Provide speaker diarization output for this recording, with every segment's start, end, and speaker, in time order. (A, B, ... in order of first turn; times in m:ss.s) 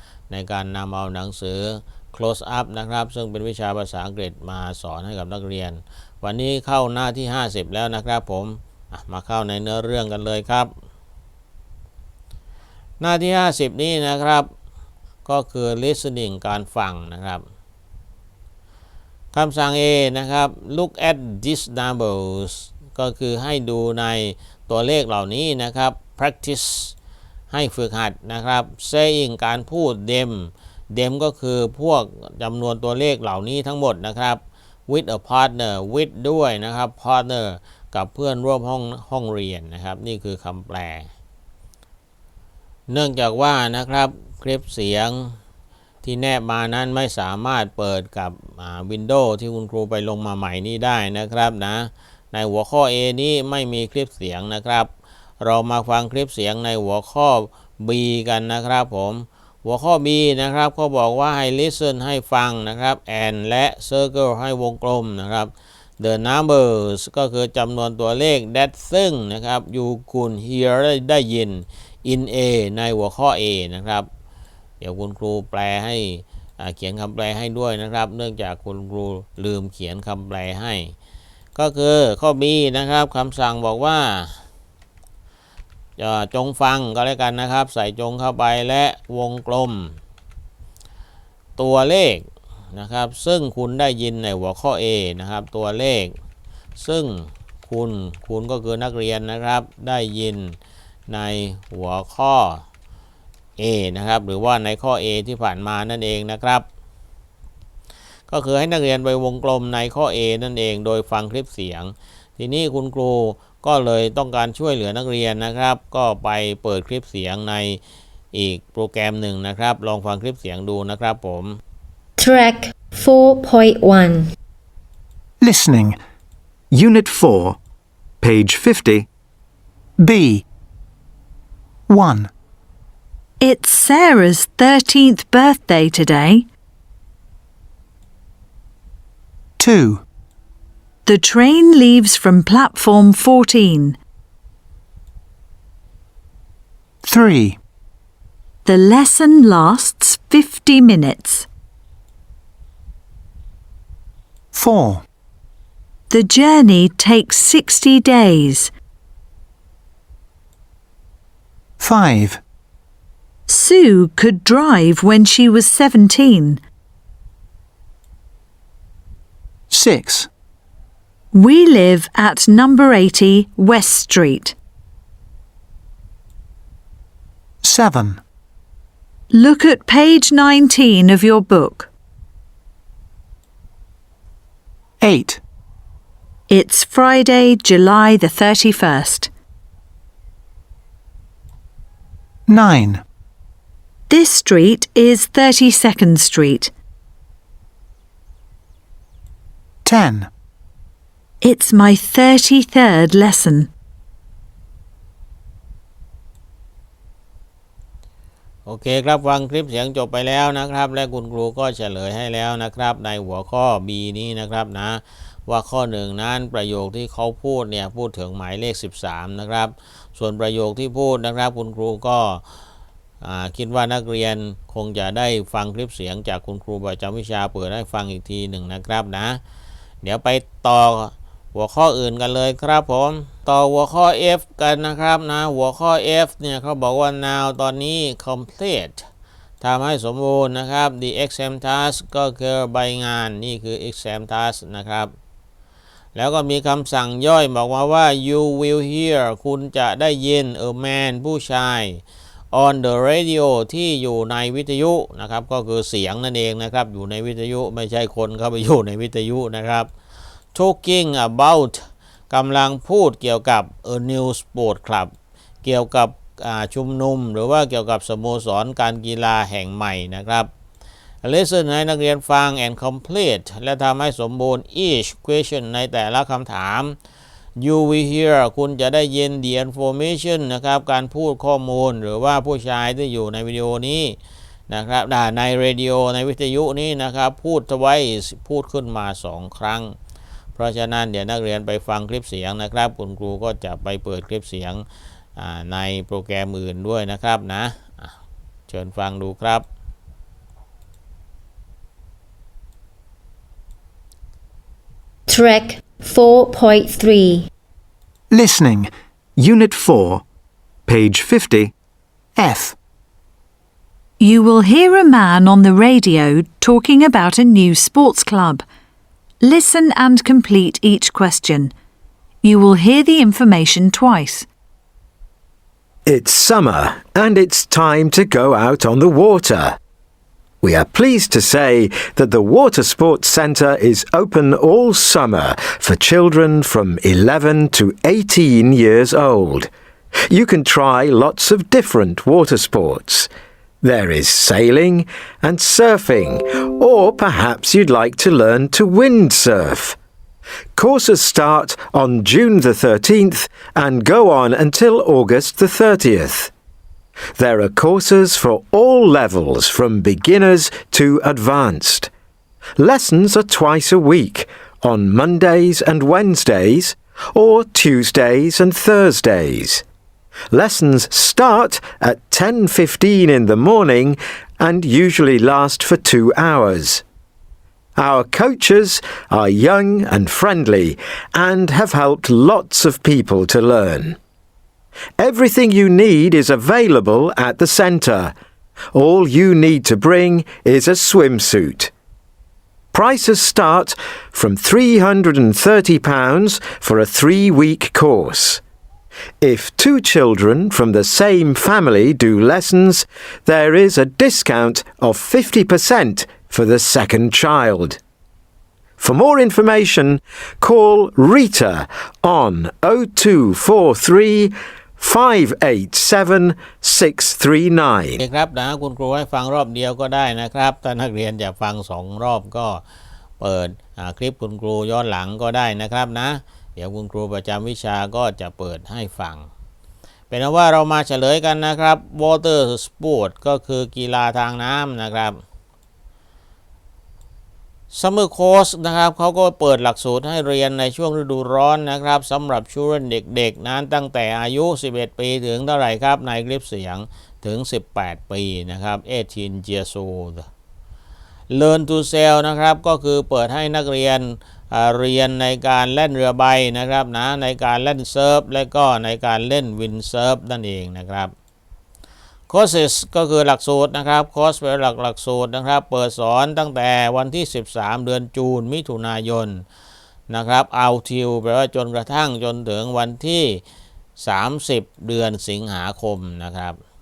0:00.3-0:10.7 A
0:13.0-0:14.5 A
0:15.2-0:17.4 A
0:19.3-0:26.9 A
0:27.5-0:41.1 A
0:42.9-0:45.3 A
0:46.0-0:54.9 A
0:55.4-1:14.1 A
1:14.8-1:20.9 A
1:21.6-1:24.3 A
1:26.0-1:29.9 A
1:31.6-1:36.1 A
1:36.8-1:40.6 A
1:41.1-1:42.6 A
1:43.6-1:46.6 A
1:48.3-1:57.8 A
1:58.3-2:01.6 A
2:02.2-2:04.3 B
2:05.4-2:06.0 C
2:06.7-2:07.6 D
2:08.2-2:09.1 D
2:10.0-2:10.4 C
2:11.9-2:12.3 C
2:13.4-2:16.4 E
2:19.6-2:20.0 C
2:21.0-2:24.0 E
2:27.0-2:27.6 C
2:28.6-2:31.5 E
2:34.5-2:35.0 C
2:36.1-2:38.7 E
2:41.8-2:42.4 C
2:43.5-2:46.6 E
2:49.7-2:50.3 C
2:51.3-2:54.6 E
2:57.6-2:58.2 C
2:59.3-3:01.9 E
3:05.0-3:05.4 C
3:06.5-3:09.3 E
3:12.5-3:13.0 C
3:14.1-3:16.7 E
3:19.8-3:20.3 C
3:21.4-3:23.7 E
3:28.6-3:42.4 A
3:43.2-3:49.4 A
3:50.0-3:59.0 A
3:59.6-4:05.1 A
4:06.2-4:19.9 A
4:20.5-4:25.1 A
4:25.6-4:30.5 A
4:31.2-4:37.0 A
4:37.6-4:44.2 A
4:44.7-4:49.9 A
4:50.6-4:54.8 A
4:55.4-4:58.1 A
4:58.7-4:59.6 A
5:05.3-5:07.5 B
5:08.3-5:08.9 C
5:09.4-5:10.2 D
5:10.9-5:11.7 D
5:12.4-5:12.7 C
5:14.2-5:18.6 E
5:19.4-5:21.7 E
5:22.4-5:24.5 E
5:26.0-5:29.8 D
5:30.6-5:39.7 D
5:40.3-5:43.3 D
5:43.8-5:50.0 D
5:50.8-5:56.5 D
5:57.4-6:02.1 D
6:02.8-6:09.8 D
6:10.5-6:17.0 D
6:18.0-6:24.2 D
6:25.2-6:28.3 D
6:28.9-6:31.9 D
6:32.9-6:38.6 D
6:39.4-6:48.0 D
6:49.0-6:58.2 D
6:58.2-7:02.8 A
7:03.4-7:09.4 A
7:10.3-7:15.4 A
7:17.9-7:30.4 A
7:31.5-7:41.3 A
7:42.5-7:49.6 A
7:50.3-7:53.6 A
7:54.2-7:56.8 A